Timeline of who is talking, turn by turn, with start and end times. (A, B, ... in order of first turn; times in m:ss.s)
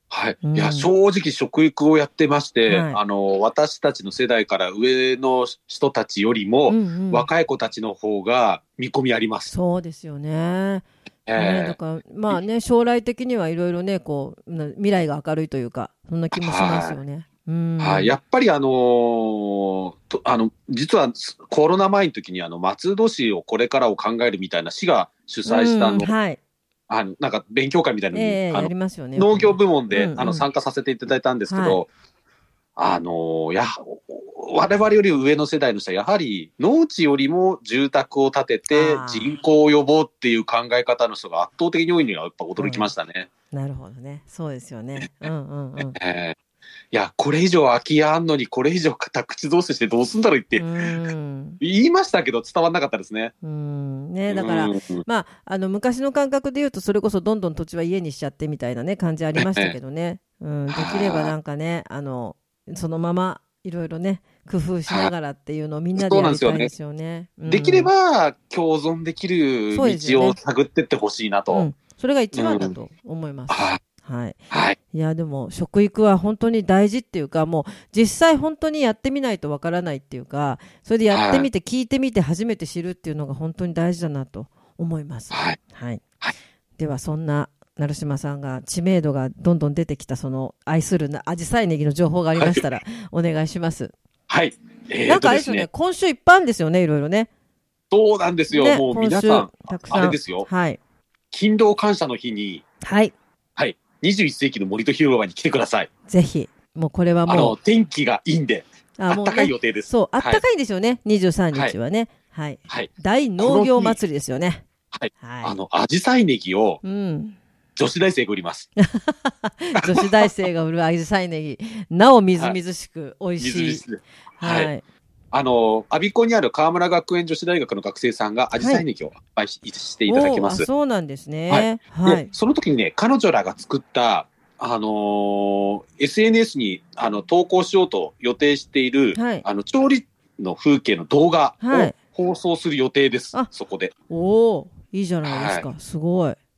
0:00.1-0:09.5 A
0:00.4-0:00.9 B
0:02.7-0:03.0 B
0:06.7-0:07.3 B
0:09.5-0:18.2 B
0:11.2-0:11.8 A
0:16.3-0:17.0 A
0:17.8-0:26.1 A
0:25.4-0:26.4 B
0:26.9-0:31.9 A
0:28.1-0:30.4 B
0:31.5-0:31.8 B
0:32.8-0:43.3 A
0:38.7-0:39.3 B
0:42.6-0:42.9 B
0:43.5-0:46.0 B
0:45.9-0:46.4 A
0:46.9-0:50.7 A
0:50.6-0:51.6 B
0:51.6-0:53.3 A
0:53.4-1:07.9 B
0:54.3-0:55.0 A
0:59.4-0:59.8 A
1:00.7-1:01.3 A
1:06.0-1:06.7 A
1:07.5-1:11.7 A
1:09.7-1:10.4 B
1:11.5-1:14.4 B
1:12.3-1:12.7 A
1:13.5-1:13.8 A
1:14.5-1:14.8 A
1:14.9-1:26.0 B
1:21.1-1:21.5 A
1:25.3-1:25.6 A
1:26.8-1:33.9 B
1:32.4-1:32.6 A
1:34.3-1:35.7 A
1:35.1-1:37.3 B
1:37.9-1:40.5 A
1:38.5-1:40.8 B
1:41.3-1:42.6 A
1:42.8-1:43.1 B
1:43.6-1:45.9 A
1:46.1-1:47.6 B
1:47.3-1:50.4 A
1:49.0-1:54.6 B
1:52.7-1:54.0 A
1:54.9-1:56.8 A
1:55.2-1:55.6 B
1:56.8-1:57.4 B
1:57.8-1:58.7 A
1:58.8-2:03.9 B
1:59.8-2:00.3 A
2:03.4-2:04.7 A
2:04.4-2:04.8 B
2:05.3-2:10.7 A
2:08.6-2:08.8 B
2:10.1-2:12.3 B
2:11.5-2:23.9 A
2:19.1-2:19.4 B
2:21.6-2:22.0 B
2:24.1-2:26.4 B
2:25.2-2:25.7 A